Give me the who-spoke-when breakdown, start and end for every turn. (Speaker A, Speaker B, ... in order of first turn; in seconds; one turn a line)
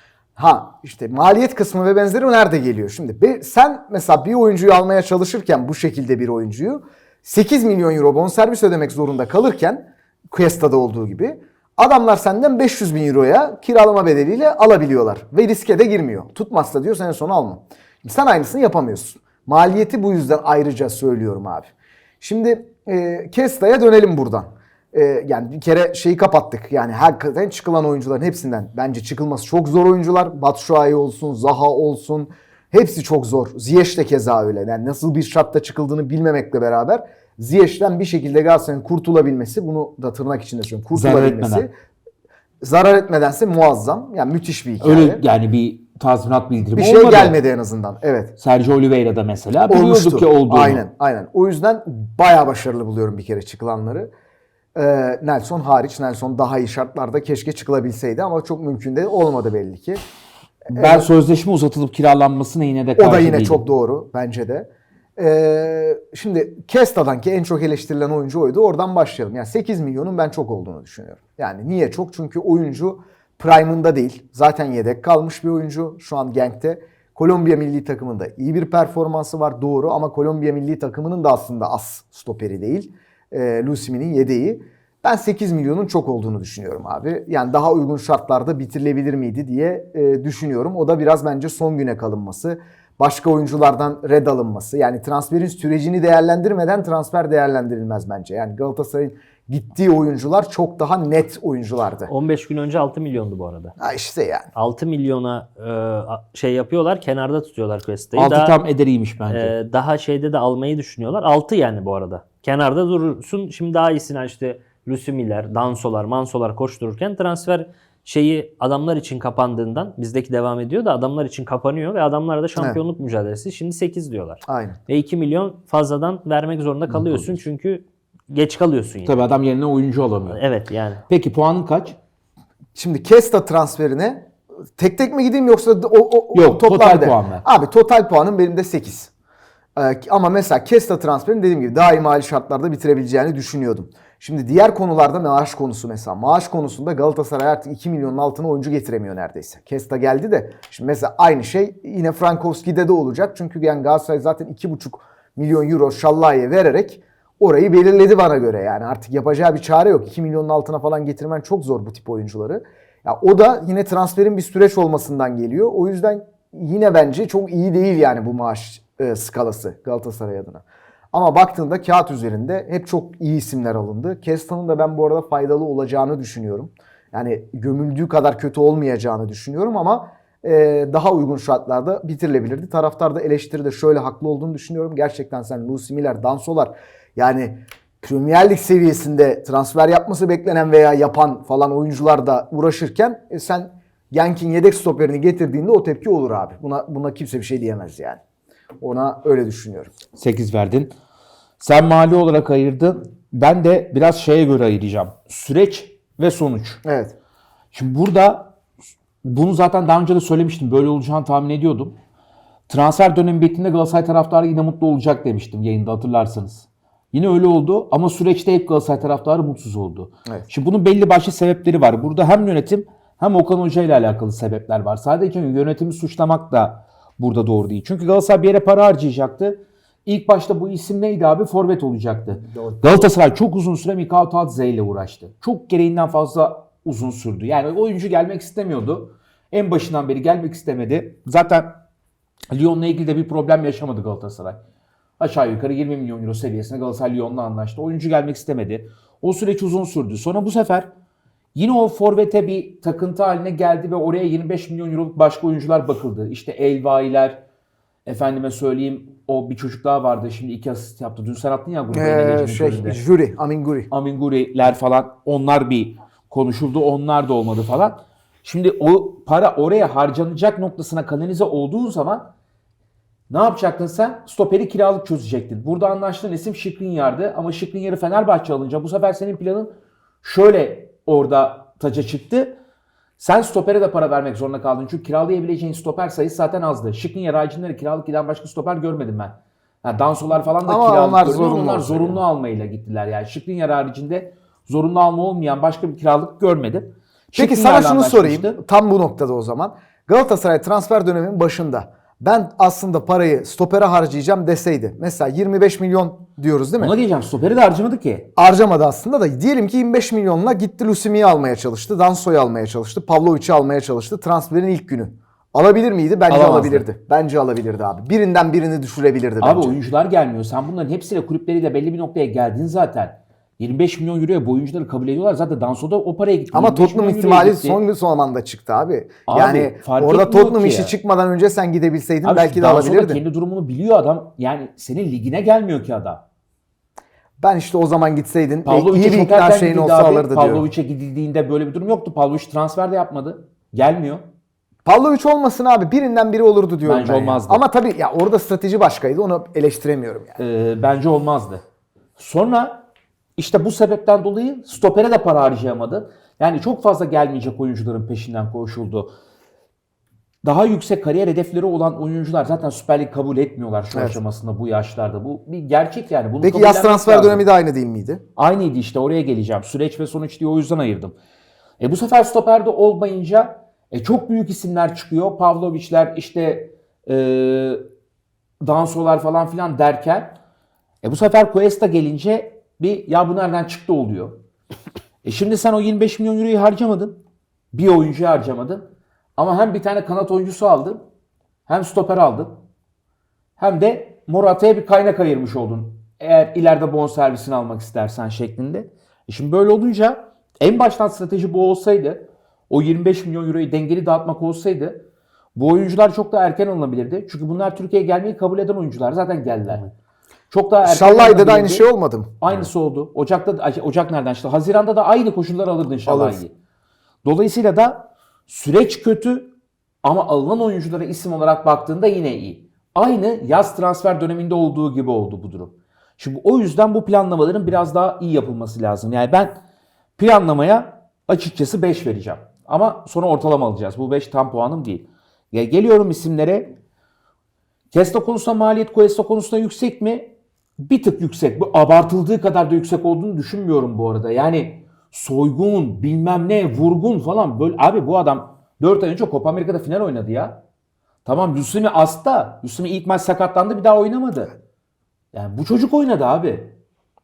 Speaker A: 0.3-41.7
Speaker B: 40.9-41.7
Speaker A: 42.6-45.2
Speaker B: 44.8-47.4
Speaker A: 46.7-48.3
Speaker B: 48.4-50.8
Speaker A: 49.7-54.1
Speaker A: 54.7-60.0
Speaker A: 60.7-61.1
Speaker B: 60.7-63.6
Speaker A: 63.0-102.1
Speaker C: 102.0-103.7
Speaker A: 103.8-104.5
Speaker C: 104.5-108.6
Speaker B: 108.1-109.5
Speaker C: 109.3-129.2
Speaker A: 122.5-122.8
Speaker A: 124.5-124.8
Speaker B: 126.9-127.3
Speaker B: 129.0-130.4
Speaker C: 130.3-131.0
Speaker B: 131.1-132.0
Speaker A: 132.7-139.1
Speaker B: 136.3-137.4
Speaker A: 139.8-198.2
Speaker A: 198.8-199.9
Speaker B: 200.2-200.9
Speaker B: 201.6-206.8
Speaker A: 206.8-207.1
Speaker B: 207.7-208.5
Speaker B: 209.2-211.9
Speaker B: 212.7-241.8
Speaker A: 232.3-233.1
Speaker B: 242.5-244.6
Speaker B: 245.2-250.9
Speaker B: 251.5-257.4
Speaker B: 258.1-263.0
Speaker A: 261.9-263.9
Speaker B: 263.9-272.3
Speaker B: 273.3-279.7
Speaker B: 280.2-282.6
Speaker B: 283.2-298.6
Speaker A: 290.6-292.2
Speaker A: 297.4-306.9
Speaker B: 306.8-308.3
Speaker A: 308.4-319.8
Speaker B: 316.3-316.9
Speaker B: 319.4-327.8
Speaker A: 326.5-333.2
Speaker B: 329.3-330.9
Speaker B: 332.2-336.2
Speaker A: 337.4-340.6
Speaker B: 338.6-344.2
Speaker A: 344.8-350.4
Speaker B: 346.8-347.6
Speaker B: 350.4-351.6
Speaker B: 352.2-359.1
Speaker B: 360.4-367.4
Speaker A: 363.9-364.2
Speaker A: 366.4-368.2
Speaker B: 368.4-371.1
Speaker B: 371.8-377.8
Speaker B: 378.6-380.4
Speaker B: 381.0-384.4
Speaker B: 385.2-387.2
Speaker B: 387.7-391.0
Speaker B: 391.7-392.6
Speaker B: 393.6-405.0
Speaker B: 405.5-409.8
Speaker B: 410.5-411.9
Speaker A: 410.8-412.4
Speaker B: 412.4-416.5
Speaker A: 416.1-416.4
Speaker B: 417.2-419.5
Speaker B: 420.0-429.6
Speaker B: 430.2-436.7
Speaker B: 437.9-450.6
Speaker B: 451.2-454.5
Speaker B: 455.3-456.8